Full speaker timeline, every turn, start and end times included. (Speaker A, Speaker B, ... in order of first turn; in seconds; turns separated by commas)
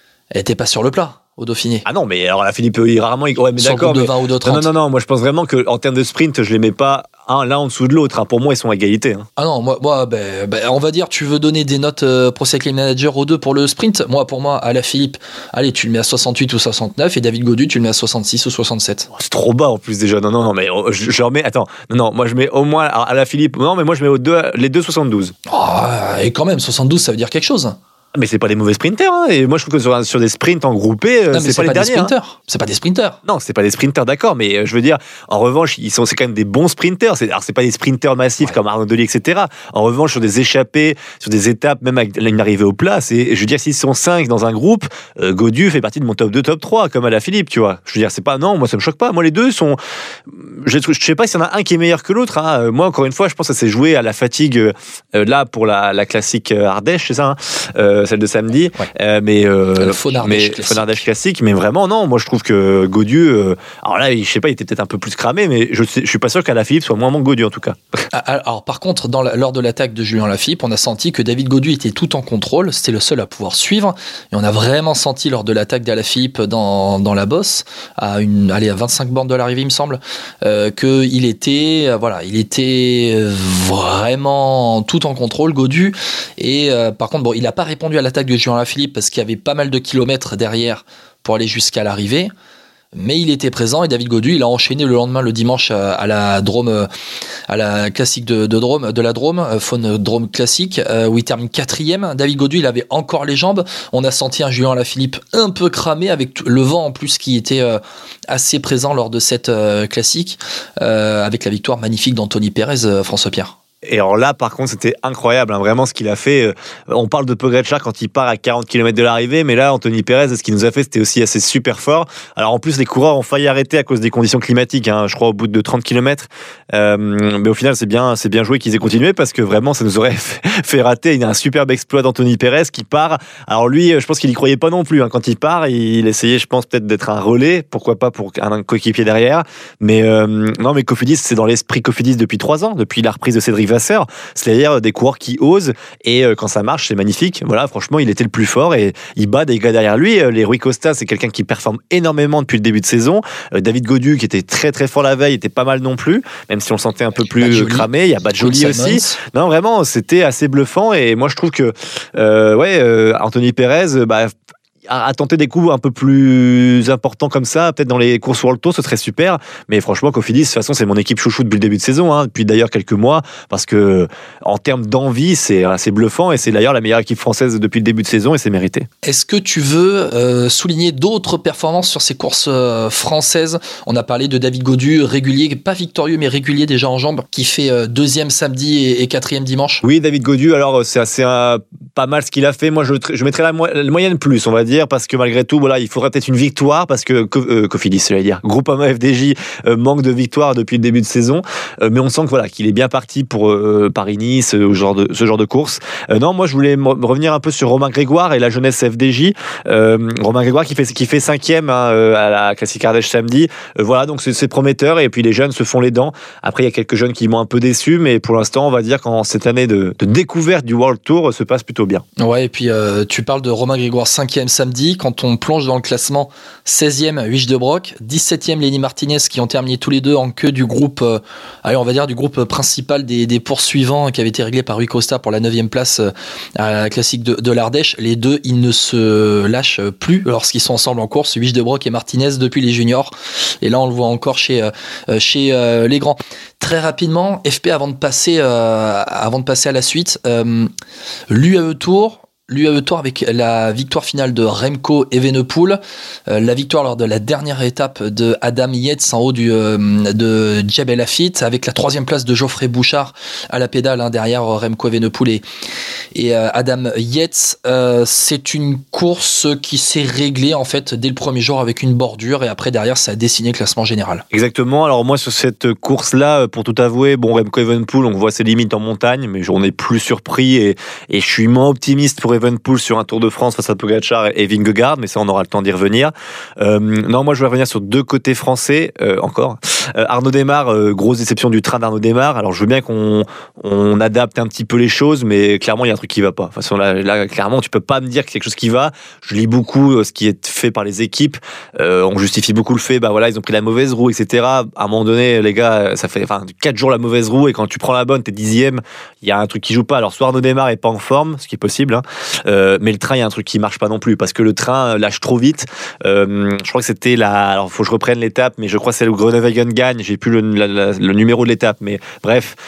Speaker A: 0.3-1.9, Speaker B: 1.9-9.3, Speaker A: 3.6-4.7, Speaker A: 9.4-19.1, Speaker B: 19.1-25.3, Speaker A: 25.5-27.8, Speaker B: 28.1-32.1, Speaker A: 31.3-33.2, Speaker B: 33.3-49.8, Speaker B: 50.3-68.0, Speaker A: 59.8-61.0, Speaker A: 68.1-92.3, Speaker A: 93.0-96.9, Speaker A: 97.5-113.5, Speaker B: 113.9-178.9, Speaker A: 157.4-159.2, Speaker A: 179.0-189.8, Speaker B: 189.8-222.0, Speaker A: 222.2-250.7, Speaker A: 251.3-265.4, Speaker A: 266.1-274.2, Speaker B: 274.3-322.6